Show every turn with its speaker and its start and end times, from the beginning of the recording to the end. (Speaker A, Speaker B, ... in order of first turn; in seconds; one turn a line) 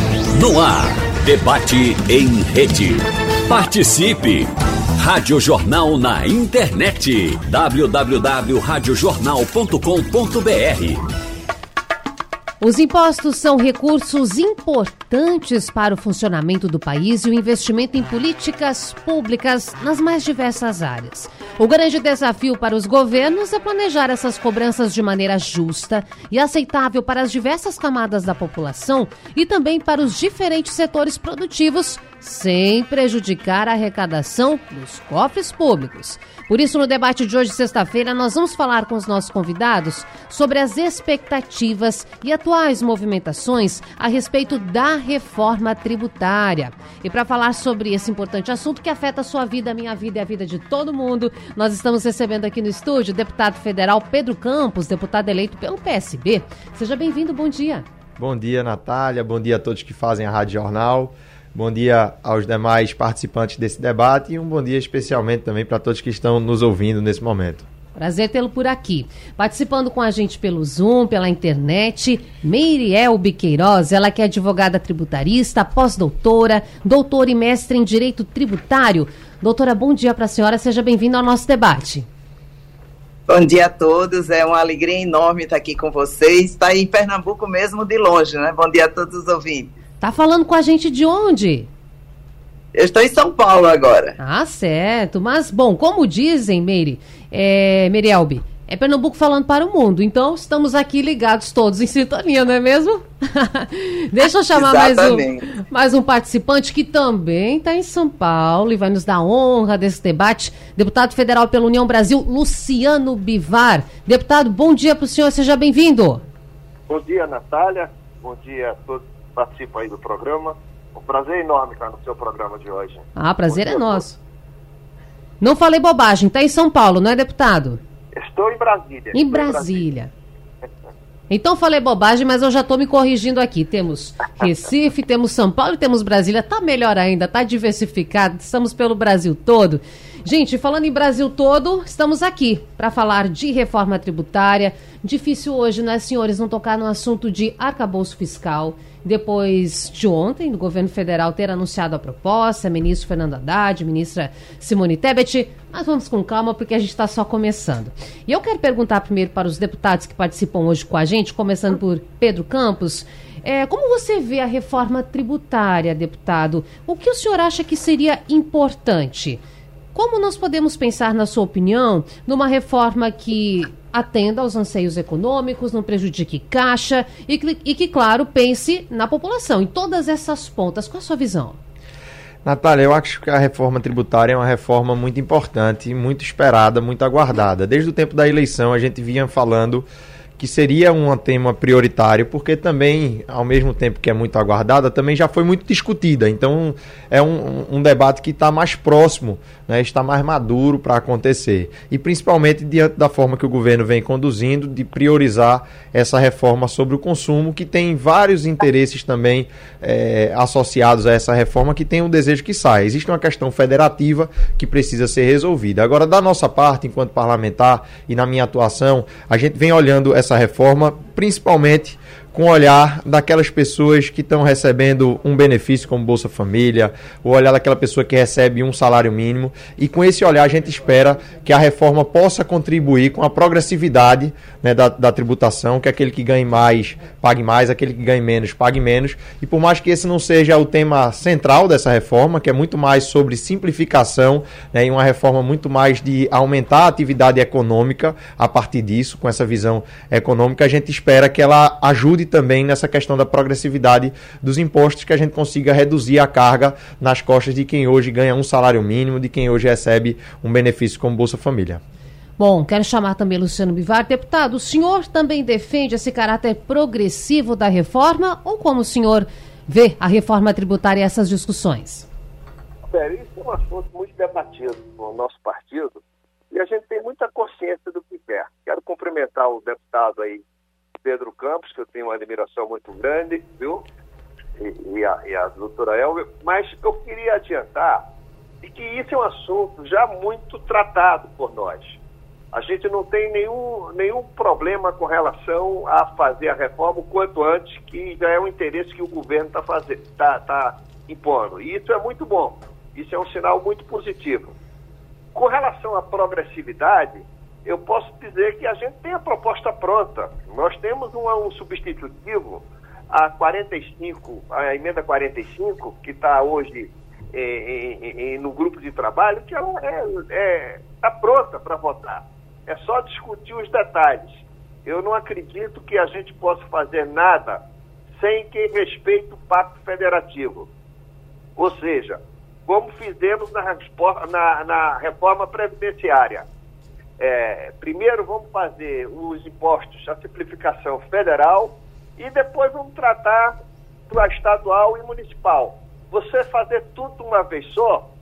Speaker A: 0.3-11.0
Speaker B: 12.6-57.9
Speaker C: 58.2-67.7
Speaker B: 68.0-82.1
Speaker D: 83.3-89.7
Speaker B: 90.0-91.7
Speaker D: 92.8-94.2
Speaker B: 94.2-116.2
Speaker D: 104.5-105.5
Speaker E: 116.9-124.0
Speaker B: 123.2-124.2
Speaker B: 125.4-127.8
Speaker E: 128.1-129.8
Speaker B: 129.1-130.1
Speaker B: 131.3-169.4
Speaker B: 169.9-181.6
Speaker C: 182.4-189.9
Speaker C: 190.4-261.8
Speaker B: 262.4-272.1
Speaker E: 272.9-280.4
Speaker E: 281.0-283.8
Speaker E: 284.6-288.0
Speaker E: 288.6-292.0
Speaker E: 292.5-304.5
Speaker E: 305.4-327.6
Speaker E: 328.2-330.7
Speaker E: 331.6-336.5
Speaker E: 337.2-343.6
Speaker E: 344.1-348.1